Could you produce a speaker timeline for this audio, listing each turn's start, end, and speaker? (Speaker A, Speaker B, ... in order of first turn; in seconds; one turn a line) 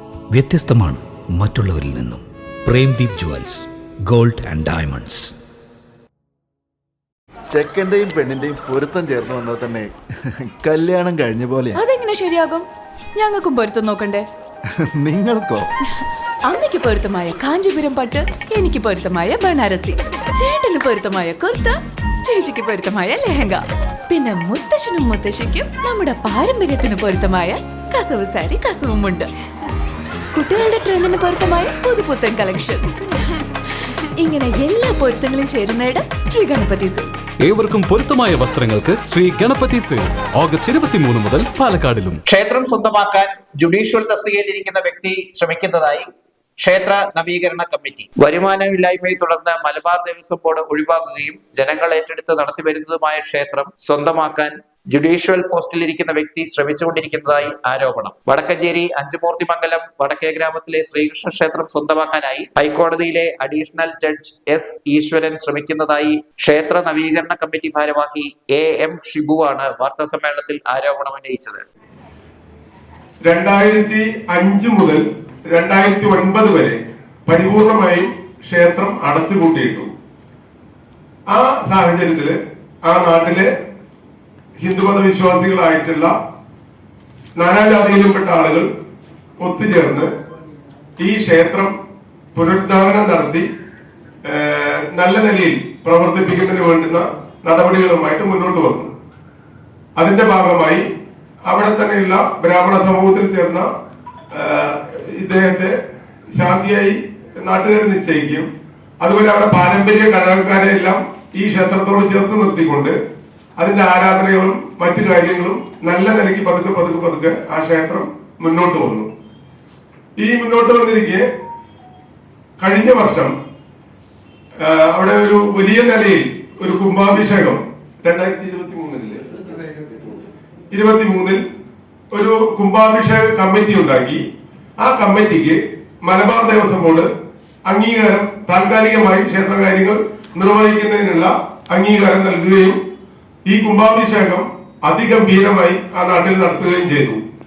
Speaker A: 0.3-5.3
Speaker B: 7.5-11.8
Speaker C: 11.8-12.7
Speaker C: 13.2-14.2
Speaker B: 14.8-15.7
Speaker C: 16.5-29.3
Speaker C: 30.3-32.9
Speaker C: 34.2-37.3
Speaker D: 37.4-42.2
Speaker E: 42.3-46.1
Speaker E: 46.6-71.6
Speaker F: 73.2-79.9
Speaker F: 81.3-83.5
Speaker F: 84.6-86.1
Speaker F: 87.4-88.7
Speaker F: 89.4-90.1
Speaker F: 91.0-91.8
Speaker F: 92.3-93.5
Speaker F: 94.2-98.9
Speaker F: 100.0-100.8
Speaker F: 101.5-103.7
Speaker F: 104.3-105.8
Speaker F: 106.3-108.5
Speaker F: 109.0-113.0
Speaker F: 113.6-119.1
Speaker F: 120.2-121.2
Speaker F: 122.6-123.3
Speaker F: 124.6-129.4
Speaker F: 129.9-130.2
Speaker F: 130.7-131.4
Speaker F: 132.1-134.2
Speaker F: 134.8-137.1
Speaker F: 137.7-142.8
Speaker F: 143.5-147.2